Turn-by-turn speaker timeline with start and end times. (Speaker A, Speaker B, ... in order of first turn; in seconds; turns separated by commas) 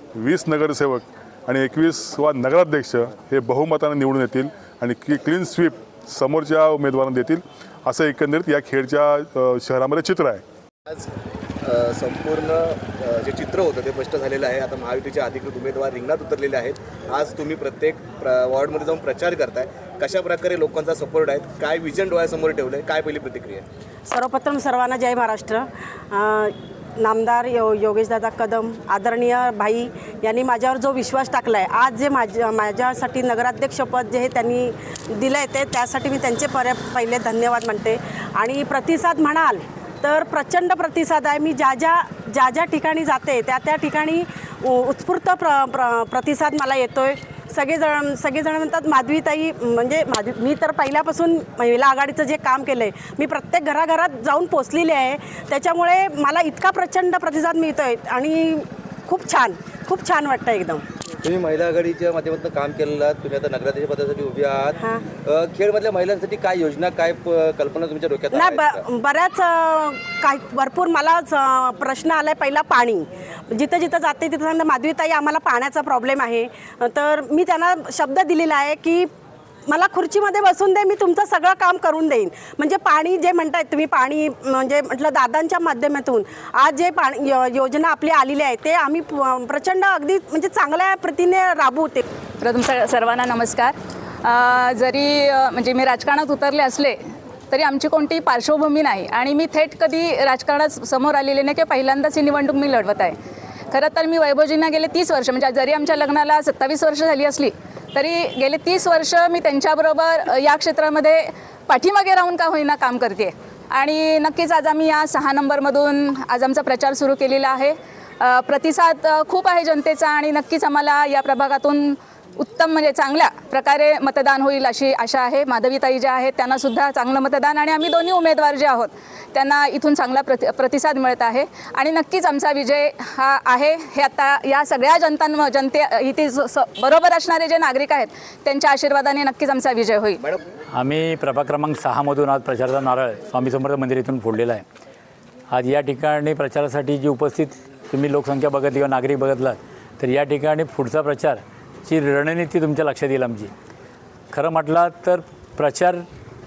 Speaker A: 0.1-10.4, Speaker B: 11.6-23.6, Speaker C: 24.0-60.9, Speaker D: 61.3-64.8, Speaker C: 64.8-65.1, Speaker D: 65.4-68.5, Speaker C: 68.3-79.1, Speaker C: 79.7-92.0, Speaker E: 92.4-97.0, Speaker E: 97.5-103.2, Speaker E: 103.7-140.3, Speaker F: 140.7-144.6, Speaker F: 145.5-153.5, Speaker F: 154.3-156.1